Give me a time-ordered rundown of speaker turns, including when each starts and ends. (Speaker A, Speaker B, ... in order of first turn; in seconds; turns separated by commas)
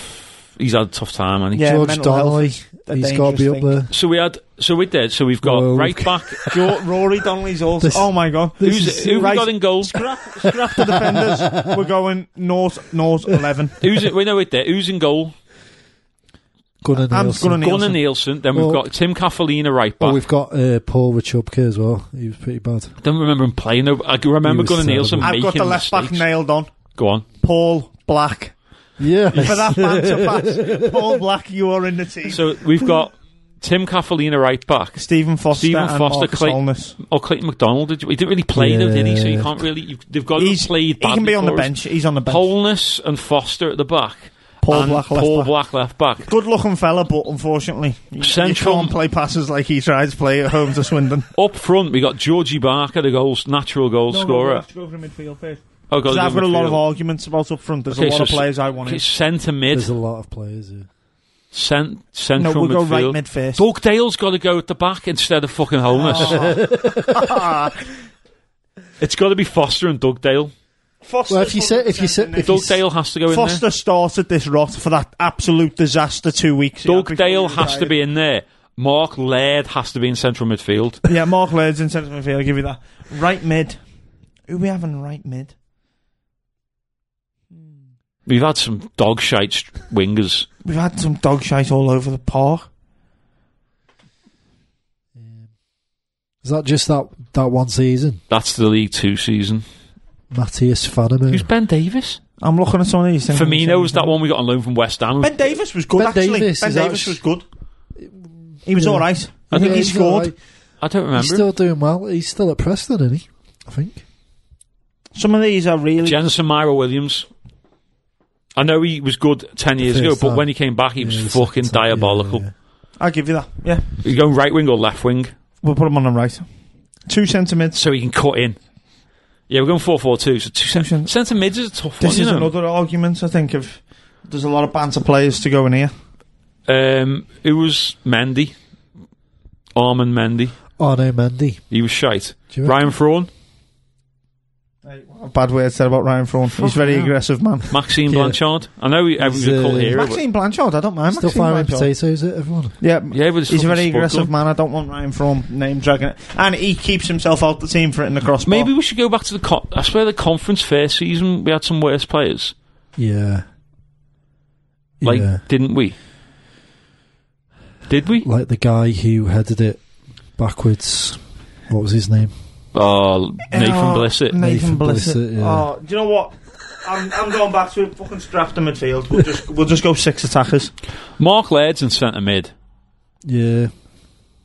Speaker A: 0.6-1.7, Speaker B: 1.5-3.7, Speaker C: 1.6-3.9, Speaker A: 3.9-6.6, Speaker C: 5.4-6.6, Speaker B: 6.5-13.8, Speaker C: 7.8-9.3, Speaker A: 8.6-9.9, Speaker C: 10.7-11.8, Speaker A: 13.8-15.3, Speaker C: 16.8-17.6, Speaker B: 17.1-18.0, Speaker A: 17.6-20.2, Speaker C: 18.5-18.8, Speaker C: 20.0-22.9, Speaker A: 23.0-26.2, Speaker C: 24.4-25.3, Speaker B: 25.2-26.7, Speaker A: 27.0-27.3, Speaker B: 27.4-28.5, Speaker C: 29.0-31.2, Speaker B: 29.3-32.4, Speaker A: 32.3-41.7, Speaker B: 35.0-36.9, Speaker C: 38.5-39.5, Speaker B: 40.4-42.5, Speaker A: 42.3-46.3, Speaker B: 44.6-45.5, Speaker B: 46.2-51.3, Speaker A: 48.2-48.9, Speaker A: 51.4-54.6, Speaker B: 54.1-59.0, Speaker A: 55.9-56.8, Speaker A: 57.9-59.9, Speaker C: 59.7-60.9, Speaker A: 61.5-66.5, Speaker B: 62.4-63.6, Speaker B: 65.9-67.8, Speaker C: 66.1-67.5, Speaker A: 69.0-70.5, Speaker B: 71.0-72.7, Speaker C: 71.3-72.8, Speaker A: 72.4-73.6, Speaker B: 73.3-77.9, Speaker A: 76.8-81.0, Speaker B: 81.0-83.8, Speaker B: 84.5-85.5, Speaker A: 88.3-90.5, Speaker B: 90.6-92.7, Speaker C: 95.1-95.5, Speaker C: 96.4-98.2, Speaker A: 98.3-99.6, Speaker C: 100.3-101.5, Speaker A: 101.3-102.2, Speaker B: 102.4-104.1, Speaker A: 103.3-105.5, Speaker B: 105.2-107.4, Speaker C: 105.9-107.2, Speaker C: 108.0-110.3, Speaker B: 108.6-110.3, Speaker A: 109.5-109.8, Speaker A: 110.8-111.5, Speaker C: 111.1-114.0, Speaker B: 115.2-116.2, Speaker A: 116.0-117.3, Speaker A: 118.5-122.4, Speaker C: 119.8-122.5, Speaker B: 123.0-123.8, Speaker A: 124.0-125.3, Speaker B: 125.6-126.5, Speaker B: 127.1-127.8, Speaker A: 127.7-128.6, Speaker A: 129.5-132.5, Speaker B: 130.7-131.1, Speaker B: 132.0-135.9, Speaker A: 136.7-138.5, Speaker A: 139.7-140.6, Speaker C: 140.8-141.6, Speaker A: 141.7-143.3, Speaker C: 142.5-142.8, Speaker B: 144.8-147.7, Speaker A: 146.6-147.1, Speaker A: 147.7-150.2, Speaker C: 148.1-148.4, Speaker C: 149.2-150.0, Speaker B: 149.9-151.9, Speaker C: 151.1-152.7, Speaker B: 152.8-158.7, Speaker A: 153.1-154.3, Speaker A: 158.4-162.5, Speaker C: 163.0-163.4, Speaker C: 165.0-165.4, Speaker A: 165.0-165.9, Speaker A: 167.9-168.3, Speaker C: 168.2-169.8, Speaker C: 170.3-172.3, Speaker A: 172.7-174.4, Speaker B: 173.5-180.7, Speaker C: 174.3-175.7, Speaker A: 181.2-182.5, Speaker C: 183.2-183.7